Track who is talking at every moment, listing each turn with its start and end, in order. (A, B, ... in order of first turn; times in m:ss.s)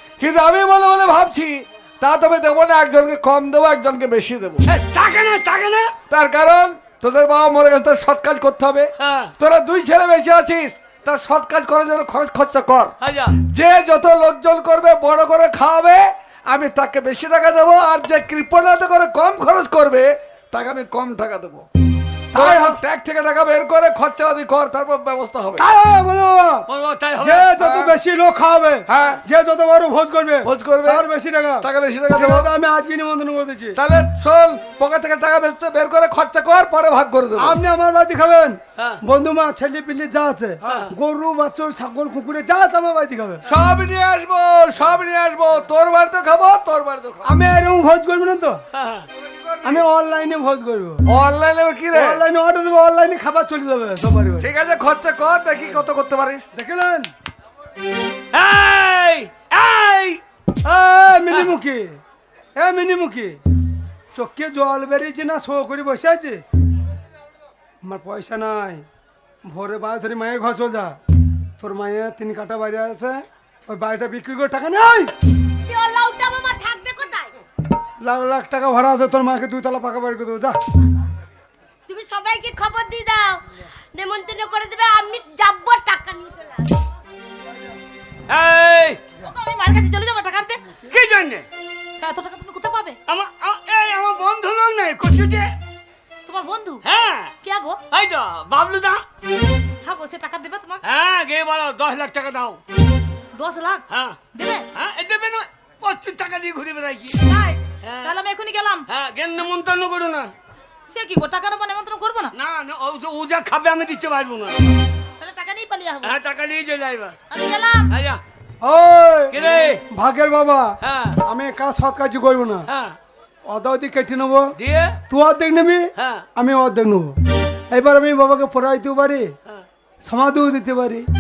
0:00.2-0:04.7 A
0:04.7-0:05.9 B
0:06.1-0:21.7 A
0:09.0-0:09.3 B
0:13.0-0:13.4 B
0:22.3-0:22.8 C
0:22.3-0:25.7 A
0:25.6-0:26.7 C
0:26.7-0:27.9 B
0:27.2-0:33.8 C
0:28.9-0:29.2 A
0:30.4-0:31.0 A
0:31.6-0:32.5 A
0:33.8-0:37.6 A
0:37.4-0:43.5 C
0:38.8-0:39.0 B
0:40.7-0:40.9 B
0:43.5-0:47.3 A
0:47.2-0:48.6 C
0:48.7-0:49.1 B
0:49.2-0:49.9 A
0:49.6-0:51.0 C
0:51.1-0:52.2 A
0:51.9-0:54.5 C
0:54.4-0:56.5 A
0:56.5-0:57.1 C
0:58.3-1:00.2 B
1:00.6-1:02.0 C
1:02.6-1:03.4 C
1:04.1-1:06.5 C
1:07.8-1:08.9 C
1:09.5-1:11.0 C
1:11.6-1:15.1 C
1:15.6-1:17.3 D
1:18.0-1:20.6 C
1:21.9-1:26.8 D
1:28.3-1:29.0 B
1:29.2-1:30.6 E
1:30.9-1:31.5 B
1:32.0-1:33.0 E
1:33.1-1:35.6 B
1:36.3-1:36.8 E
1:36.8-1:37.3 B
1:37.4-1:37.8 E
1:37.9-1:39.1 B
1:39.8-1:40.8 E
1:40.8-1:42.6 B
1:43.4-1:44.6 E
1:43.9-1:44.2 B
1:44.7-1:47.2 B
1:47.2-1:48.8 E
1:47.8-1:48.2 B
1:48.9-1:50.3 B
1:50.9-1:52.3 E
1:52.4-1:54.7 B
1:55.2-1:56.2 E
1:56.0-1:57.2 B
1:57.3-1:57.9 E
1:57.9-1:58.2 B
1:58.6-1:59.4 C
1:59.3-1:59.8 B
1:59.9-2:02.7 C
2:00.8-2:01.2 B
2:02.7-2:03.0 B
2:03.5-2:04.5 C
2:04.6-2:05.0 B
2:05.1-2:07.1 C
2:06.0-2:06.3 B
2:07.7-2:09.3 C
2:10.0-2:11.1 C